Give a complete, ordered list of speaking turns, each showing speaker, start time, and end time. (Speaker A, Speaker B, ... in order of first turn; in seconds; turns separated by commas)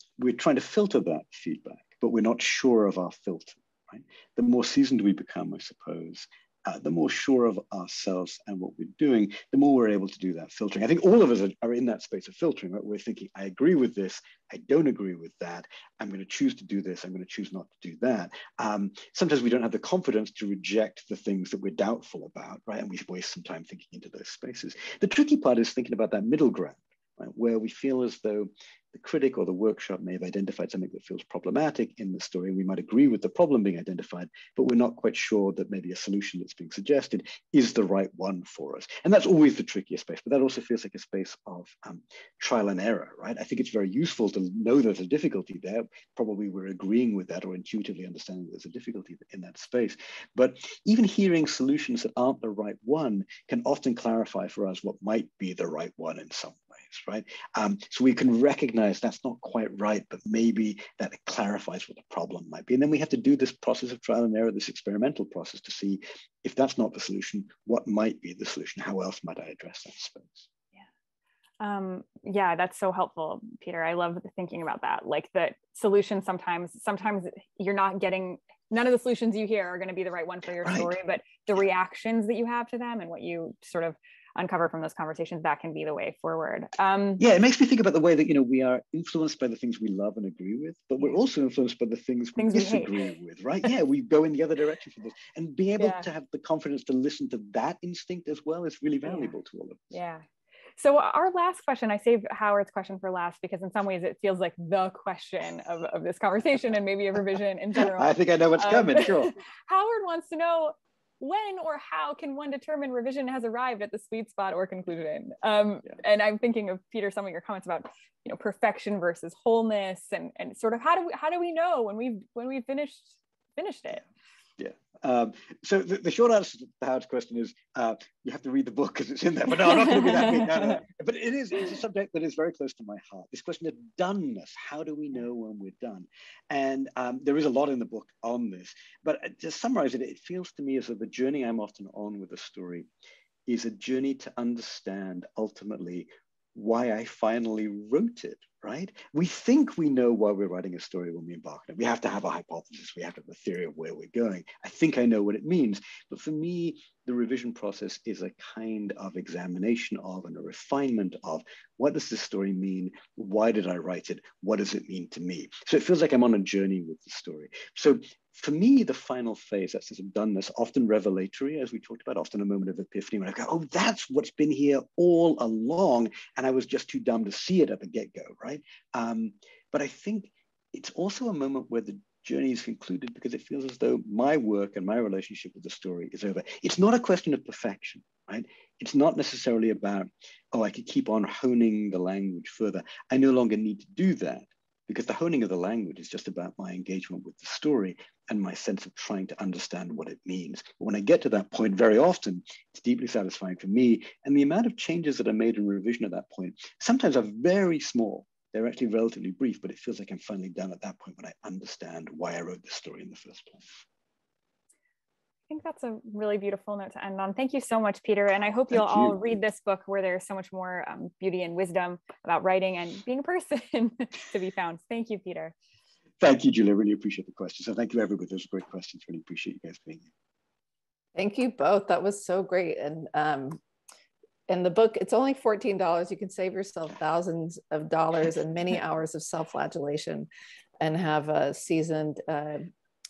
Speaker A: 0.2-70.5, Speaker B: 71.6-87.2, Speaker A: 80.6-80.9, Speaker A: 87.2-99.9, Speaker B: 92.3-93.0, Speaker B: 95.8-96.0, Speaker B: 99.0-99.3, Speaker B: 99.9-100.2, Speaker B: 100.8-124.0, Speaker A: 107.8-109.3, Speaker A: 124.6-142.9, Speaker B: 129.8-130.8, Speaker A: 143.5-213.8, Speaker B: 215.5-225.5, Speaker A: 218.7-219.2, Speaker A: 226.2-230.1, Speaker C: 231.2-233.6, Speaker C: 234.5-240.3, Speaker C: 240.8-242.7